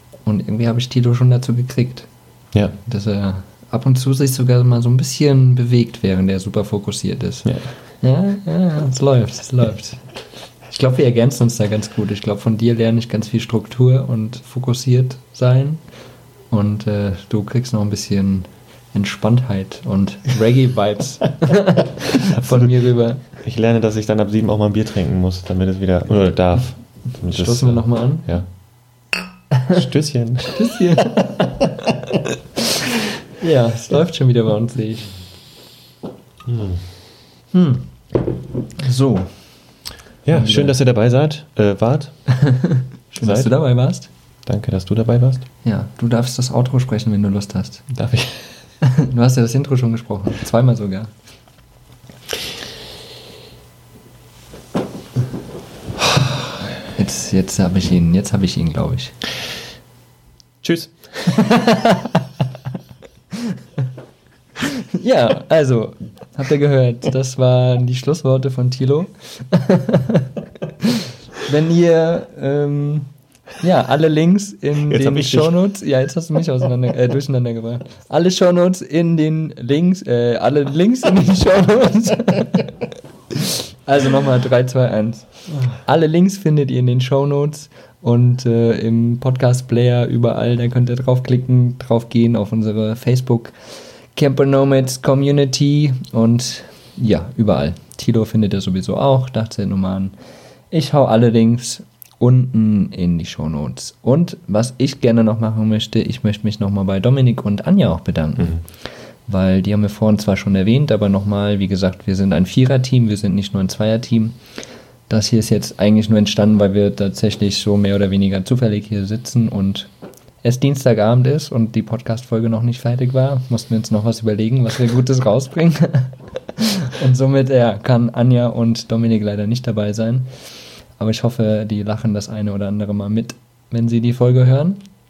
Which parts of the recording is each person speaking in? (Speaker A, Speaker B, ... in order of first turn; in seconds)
Speaker A: 0.2-2.1, 2.8-7.5, 8.0-10.0, 10.7-15.8, 16.5-23.2, 27.3-28.3, 30.5-32.2, 33.4-35.1, 37.5-37.9, 38.8-39.3, 40.3-40.7, 42.3-44.1, 45.6-47.9, 48.8-51.1, 56.9-59.1, 61.3-62.2, 64.6-82.7, 83.3-93.5, 94.1-100.1, 100.7-108.6, 109.3-114.4, 115.1-119.9, 120.4-130.3, 131.0-134.8
Speaker B: 22.1-28.5, 29.7-30.6, 36.4-36.9, 40.2-42.3, 43.2-43.5, 44.5-45.5, 47.9-48.5, 60.6-61.3, 74.8-75.6